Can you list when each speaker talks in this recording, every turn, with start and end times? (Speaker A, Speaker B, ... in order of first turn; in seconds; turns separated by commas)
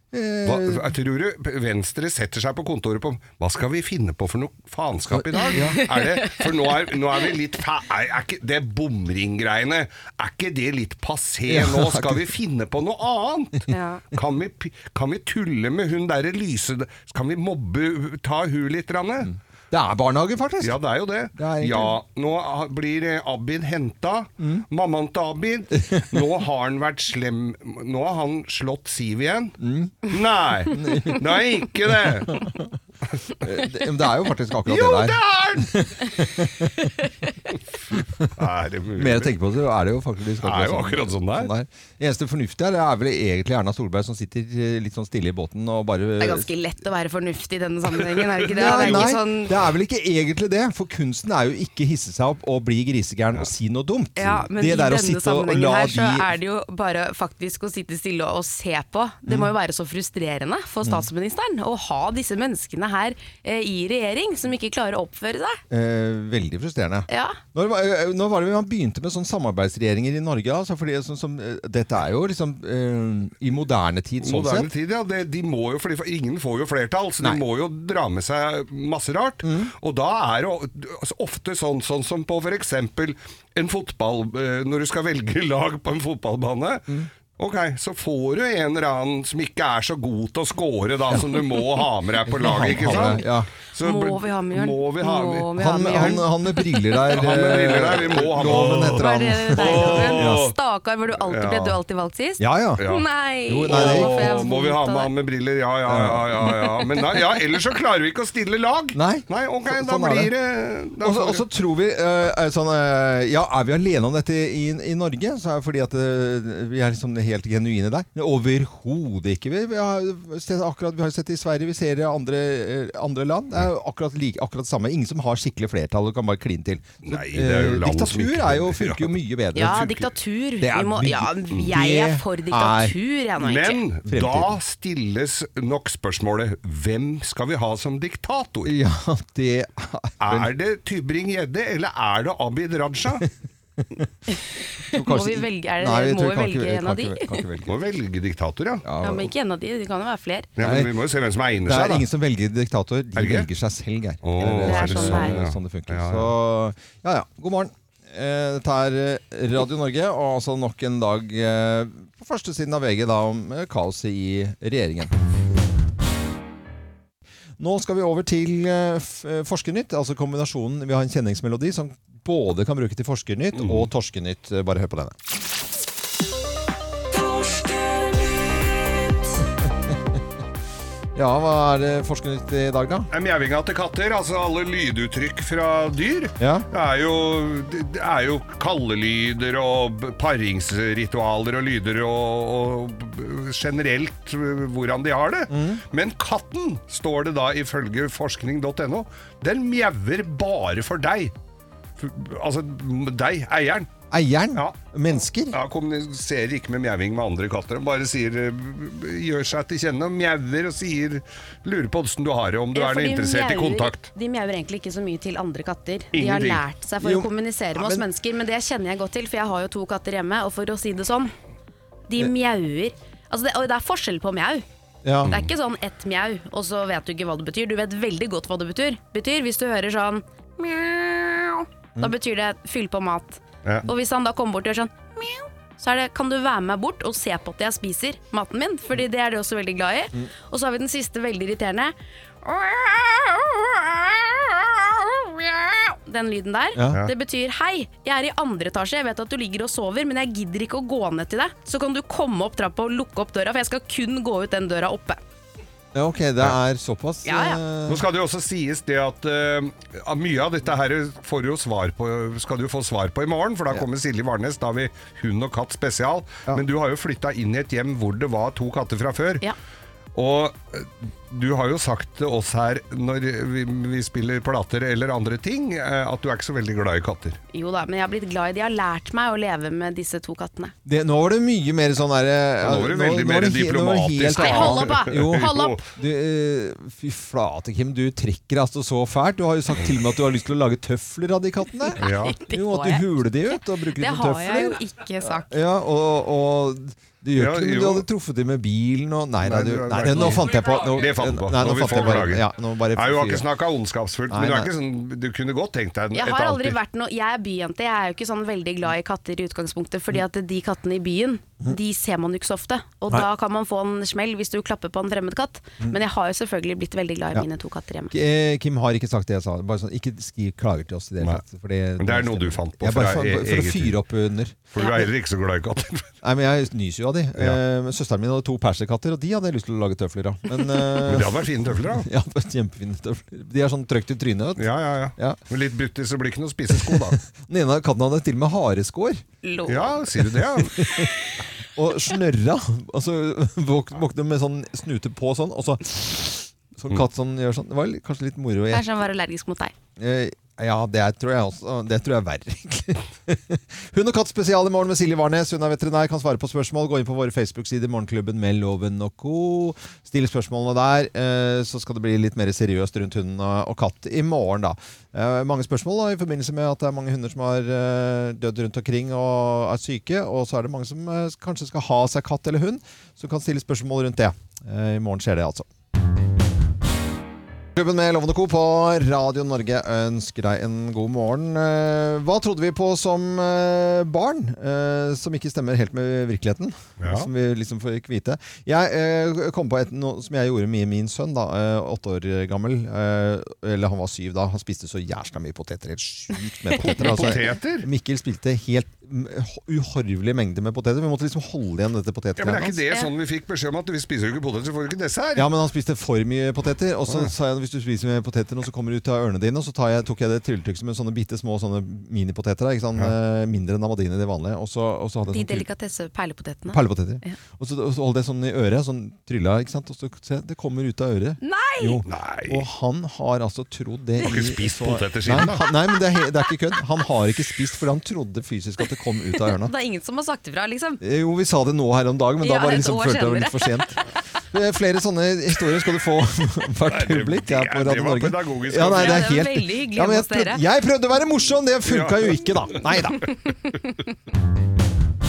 Speaker A: 0.1-0.9, Speaker B: 0.4-19.3, Speaker A: 5.1-5.8, Speaker C: 6.0-6.4, Speaker A: 11.5-12.3, Speaker A: 19.3-20.8, Speaker B: 20.6-32.4, Speaker A: 21.3-22.0, Speaker A: 24.4-24.6, Speaker A: 25.8-26.2, Speaker A: 29.6-30.1, Speaker A: 30.7-31.2, Speaker A: 32.0-32.7, Speaker A: 33.4-36.9, Speaker B: 34.6-35.7, Speaker A: 37.9-38.3, Speaker B: 38.3-39.3, Speaker A: 39.0-46.5, Speaker B: 40.4-41.5, Speaker C: 46.2-49.5, Speaker B: 48.2-49.0, Speaker A: 48.5-56.3, Speaker C: 54.2-65.6, Speaker A: 65.7-74.7, Speaker C: 67.1-67.4, Speaker B: 74.2-95.5, Speaker A: 79.4-79.7, Speaker A: 92.2-93.5, Speaker C: 93.8-96.2, Speaker A: 95.6-100.5, Speaker B: 97.1-100.5, Speaker C: 99.0-105.1, Speaker B: 101.2-101.8, Speaker A: 102.4-102.8, Speaker B: 102.8-103.0, Speaker A: 103.5-104.4, Speaker B: 103.6-111.4, Speaker A: 105.9-106.7, Speaker A: 108.9-110.3, Speaker A: 111.0-129.9, Speaker B: 127.0-130.1, Speaker C: 129.6-133.8, Speaker A: 130.6-132.9, Speaker B: 133.4-138.7, Speaker A: 134.1-134.6, Speaker A: 138.6-140.5, Speaker B: 140.2-143.2, Speaker A: 144.9-147.7, Speaker C: 145.0-147.3, Speaker B: 147.6-148.8, Speaker A: 148.8-149.3, Speaker C: 149.0-150.5, Speaker B: 150.6-152.1, Speaker A: 150.6-150.9, Speaker A: 151.6-165.1, Speaker B: 153.2-153.5, Speaker B: 154.2-156.3, Speaker C: 154.7-155.3, Speaker A: 167.6-175.2, Speaker B: 173.5-173.9, Speaker A: 181.2-183.1, Speaker B: 183.1-201.3, Speaker A: 186.4-186.7, Speaker A: 195.5-195.8, Speaker B: 202.0-203.9, Speaker A: 204.1-205.6, Speaker B: 205.5-214.1, Speaker C: 212.7-221.3, Speaker B: 216.1-216.6, Speaker A: 217.0-218.0, Speaker C: 222.1-224.6, Speaker A: 225.0-225.3, Speaker B: 225.2-225.5, Speaker C: 225.3-241.9, Speaker C: 242.4-255.2, Speaker A: 246.8-247.0, Speaker A: 255.9-258.0, Speaker C: 257.2-257.6, Speaker B: 257.9-269.4, Speaker B: 270.1-277.4, Speaker C: 277.5-280.7, Speaker A: 280.9-294.8, Speaker B: 282.6-285.8, Speaker C: 284.4-285.8, Speaker B: 292.0-292.4, Speaker C: 292.0-293.1, Speaker C: 294.0-295.5, Speaker A: 295.4-303.5, Speaker B: 297.3-298.1, Speaker B: 299.4-306.8, Speaker A: 304.3-304.7, Speaker C: 306.1-318.1, Speaker A: 318.1-324.8, Speaker B: 322.0-323.9, Speaker B: 324.7-326.1, Speaker A: 326.2-335.4, Speaker B: 331.0-332.1, Speaker B: 334.6-337.2, Speaker A: 336.8-339.2, Speaker C: 339.4-339.9, Speaker B: 339.7-340.9, Speaker A: 340.6-341.1, Speaker A: 341.7-348.8, Speaker C: 348.7-349.7, Speaker A: 350.0-375.7, Speaker A: 377.8-402.8, Speaker B: 387.0-387.3, Speaker B: 396.8-397.9, Speaker B: 402.4-405.5, Speaker A: 405.4-415.6, Speaker C: 415.3-417.3, Speaker A: 416.7-429.7, Speaker C: 421.4-422.0, Speaker B: 422.0-422.6, Speaker B: 424.2-425.7, Speaker C: 429.6-431.0, Speaker A: 431.0-443.3, Speaker C: 432.4-434.0, Speaker B: 436.9-439.3, Speaker C: 438.9-440.6, Speaker B: 441.9-443.2